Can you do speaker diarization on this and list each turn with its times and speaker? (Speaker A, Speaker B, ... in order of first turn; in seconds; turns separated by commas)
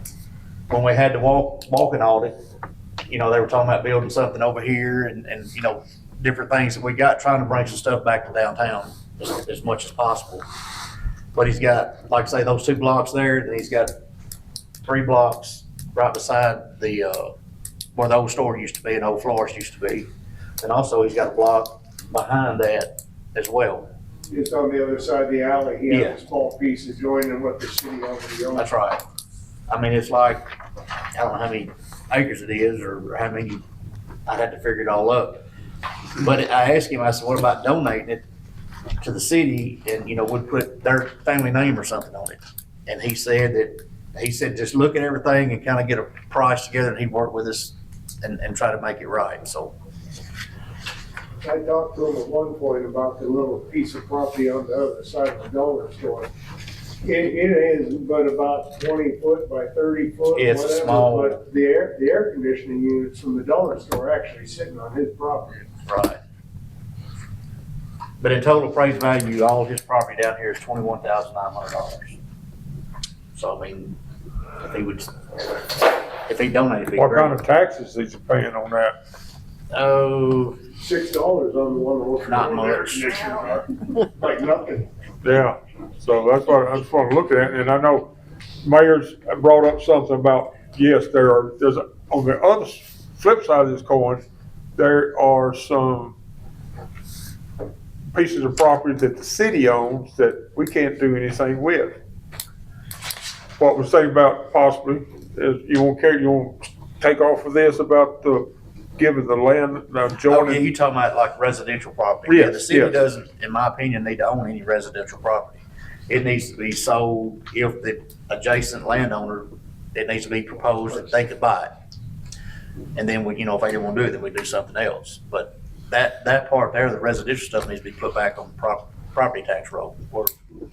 Speaker A: 0.7-2.3, Speaker A: 3.1-10.4, Speaker A: 11.3-13.9, Speaker A: 14.8-17.3, Speaker A: 17.9-20.1, Speaker A: 20.6-23.9, Speaker B: 24.3-28.7, Speaker A: 25.9-26.2, Speaker A: 28.5-29.0, Speaker A: 29.7-30.5, Speaker A: 31.1-33.6, Speaker A: 34.2-35.4, Speaker A: 36.2-38.2, Speaker A: 39.0-49.7, Speaker B: 51.4-56.3, Speaker B: 57.0-65.7, Speaker A: 60.3-61.4, Speaker A: 65.7-66.2, Speaker A: 68.2-72.2, Speaker A: 73.3-74.0, Speaker A: 74.7-75.1, Speaker A: 76.2-77.3, Speaker C: 77.0-78.9, Speaker A: 79.7-80.6, Speaker B: 80.8-84.9, Speaker A: 82.3-83.6, Speaker C: 85.2-88.1, Speaker C: 88.6-94.2, Speaker C: 94.8-96.1, Speaker C: 98.1-102.0, Speaker C: 103.6-110.7, Speaker A: 110.3-121.8, Speaker C: 112.2-113.0, Speaker A: 122.9-130.3